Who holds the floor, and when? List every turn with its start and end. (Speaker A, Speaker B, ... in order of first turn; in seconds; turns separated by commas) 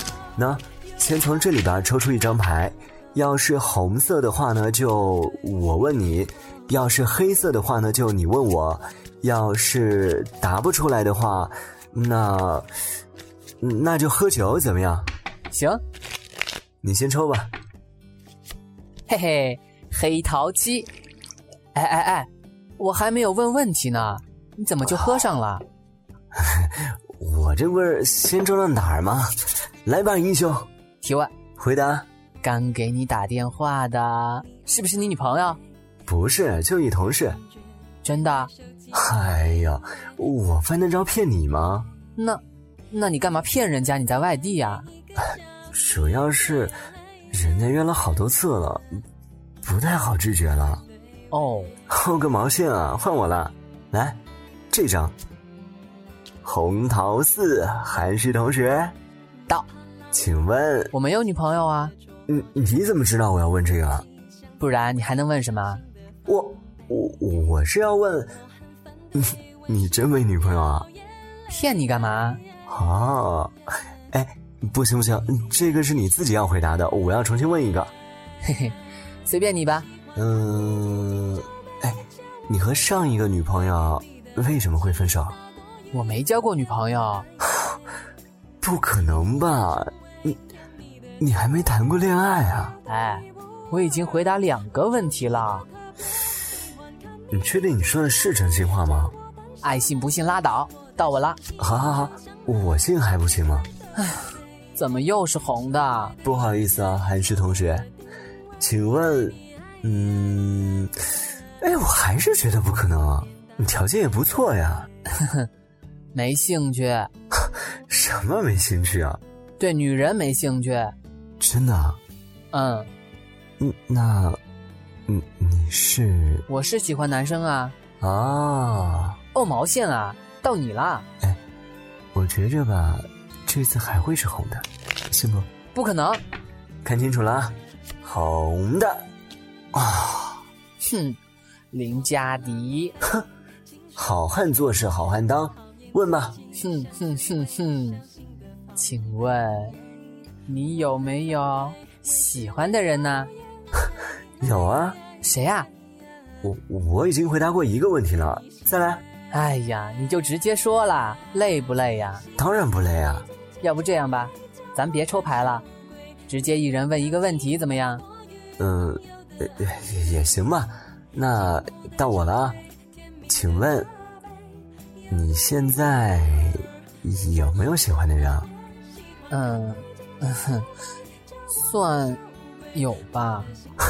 Speaker A: 0.3-12.7, Speaker A: 13.6-15.1, Speaker B: 15.5-15.8, Speaker A: 16.8-17.5, Speaker B: 19.1-20.9, Speaker B: 21.7-25.6, Speaker A: 24.9-25.2, Speaker A: 26.3-29.3, Speaker A: 29.8-30.7, Speaker B: 31.0-31.3, Speaker A: 31.6-32.1, Speaker B: 32.4-35.6, Speaker A: 36.0-37.4, Speaker B: 38.0-38.5, Speaker A: 38.9-41.9, Speaker B: 42.1-44.9, Speaker A: 45.7-46.7, Speaker A: 47.3-48.9, Speaker A: 49.6-50.8, Speaker B: 51.3-51.8, Speaker A: 51.9-55.1, Speaker A: 56.4-59.0, Speaker A: 60.1-60.9, Speaker B: 60.9-61.9, Speaker A: 62.3-64.1, Speaker B: 64.6-65.8, Speaker A: 66.2-68.3, Speaker A: 69.1-70.9, Speaker B: 71.5-72.4, Speaker A: 72.7-73.5, Speaker A: 74.1-77.9, Speaker B: 78.4-79.9, Speaker A: 80.1-85.4, Speaker B: 85.9-87.3, Speaker A: 88.6-90.4, Speaker A: 91.2-92.8, Speaker B: 92.9-95.7, Speaker A: 97.3-99.1, Speaker B: 99.6-101.4, Speaker A: 101.6-103.7, Speaker B: 103.9-106.2, Speaker A: 106.2-107.9, Speaker A: 108.6-110.9, Speaker A: 111.6-114.9, Speaker B: 115.1-115.5, Speaker B: 116.1-117.1, Speaker A: 117.9-119.2, Speaker B: 119.6-121.0, Speaker A: 121.4-122.0, Speaker B: 122.5-122.9, Speaker A: 123.6-124.4, Speaker A: 125.1-126.5, Speaker B: 126.5-127.7, Speaker A: 128.0-129.2, Speaker B: 129.3-131.1, Speaker A: 132.1-135.5, Speaker B: 135.7-136.2, Speaker A: 136.8-139.1, Speaker A: 139.7-140.4, Speaker B: 140.8-141.2, Speaker B: 141.7-142.9, Speaker A: 143.9-146.4, Speaker B: 146.5-148.0, Speaker B: 148.7-149.8, Speaker B: 150.4-153.3, Speaker A: 154.4-155.0, Speaker B: 155.2-155.7, Speaker A: 156.4-159.0, Speaker B: 159.3-162.2, Speaker A: 162.3-163.3, Speaker B: 163.6-165.7, Speaker B: 166.3-168.0, Speaker A: 168.6-172.6, Speaker A: 173.3-173.9, Speaker A: 175.1-178.5, Speaker B: 179.3-180.7, Speaker B: 181.5-182.2, Speaker B: 182.7-183.5